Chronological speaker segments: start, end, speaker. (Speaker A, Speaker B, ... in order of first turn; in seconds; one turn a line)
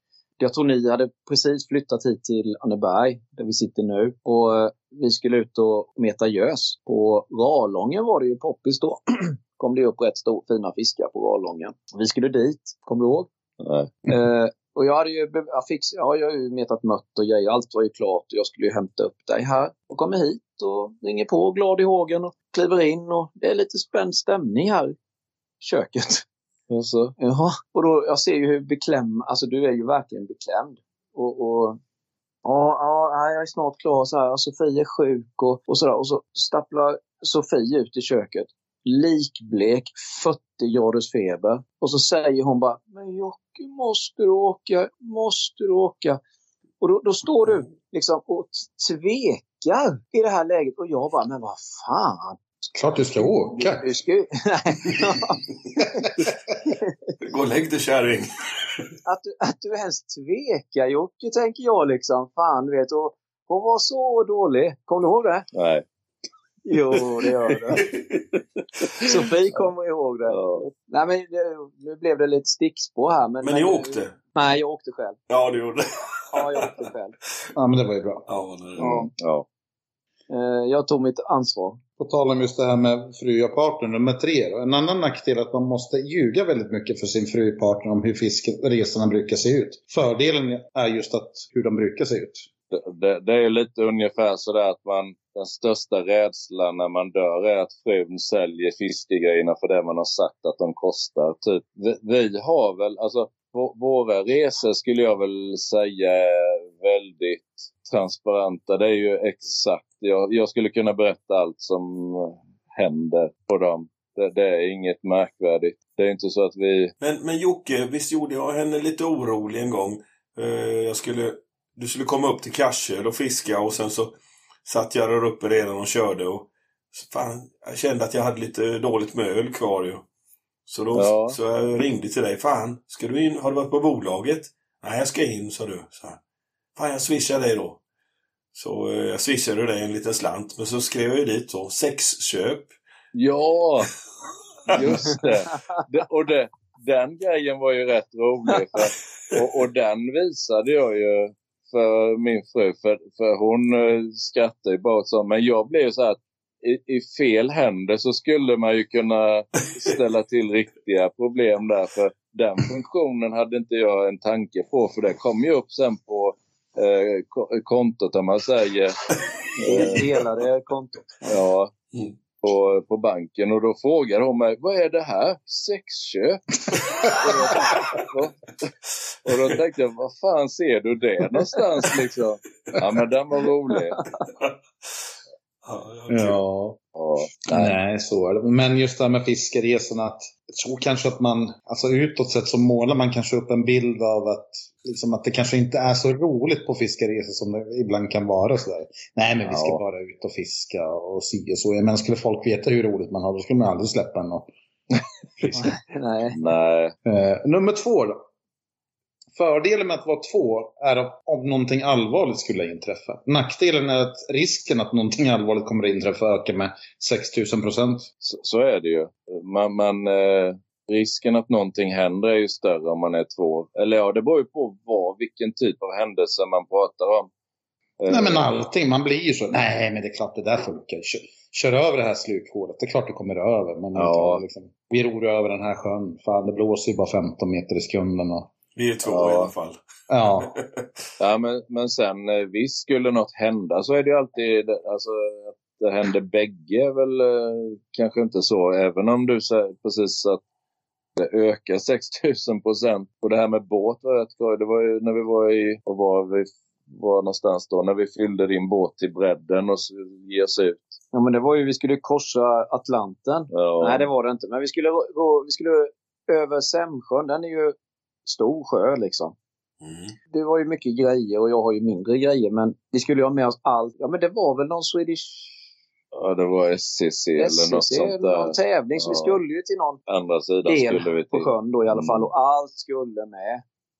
Speaker A: 0.4-13.3
Speaker B: 13.6-13.9
Speaker A: 14.1-24.9
Speaker A: 25.6-26.2
Speaker B: 26.7-27.1
Speaker A: 27.2-31.8
Speaker A: 32.4-46.2
Speaker A: 46.8-52.4
Speaker C: 52.7-53.8
Speaker A: 53.5-56.0
Speaker C: 56.0-56.3
Speaker D: 57.2-58.3
Speaker A: 59.0-65.4
Speaker B: 65.5-65.8
Speaker A: 66.6-67.8
Speaker D: 67.9-68.3
Speaker A: 69.0-75.2
Speaker B: 70.3-70.6
Speaker D: 73.4-74.2
Speaker D: 75.3-76.8
Speaker A: 76.3-77.1
Speaker C: 77.5-78.2
Speaker D: 78.3-79.1
Speaker A: 78.8-79.1
Speaker B: 79.2-79.5
Speaker A: 80.3-81.8
Speaker C: 82.0-92.5
Speaker B: 92.7-116.9
Speaker D: 117.0-130.0
Speaker D: 130.7-136.2
Speaker B: 130.9-131.4
Speaker D: 136.8-137.8
Speaker D: 138.5-142.7
Speaker B: 143.1-143.9
Speaker D: 144.7-145.2
Speaker B: 144.7-170.0
Speaker A: 145.5-145.8
Speaker D: 169.2-170.1
Speaker A: 169.6-171.2
Speaker B: 171.2-171.7
Speaker B: 172.4-176.4
Speaker B: 177.0-178.5
Speaker B: 179.2-184.1
Speaker D: 179.3-179.5
Speaker D: 184.3-184.9
Speaker D: 185.6-186.4
Speaker C: 186.1-186.8
Speaker B: 186.9-187.8
Speaker C: 187.5-204.5
Speaker B: 199.4-199.8
Speaker A: 205.6-206.4
Speaker B: 206.3-206.9
Speaker C: 207.0-208.2
Speaker C: 209.3-218.1
Speaker B: 218.2-227.3
Speaker B: 228.0-228.7
Speaker C: 228.1-238.5
Speaker B: 233.9-234.4
Speaker D: 238.7-239.8
Speaker B: 239.0-239.5
Speaker C: 240.1-240.5
Speaker D: 240.4-240.9
Speaker B: 241.2-250.4
Speaker B: 251.2-261.0
Speaker A: 261.1-269.3
Speaker B: 263.5-264.1
Speaker D: 269.8-270.1
Speaker A: 270.3-275.5
Speaker B: 276.1-279.4
Speaker A: 277.4-280.0
Speaker B: 280.1-282.3
Speaker A: 280.6-283.6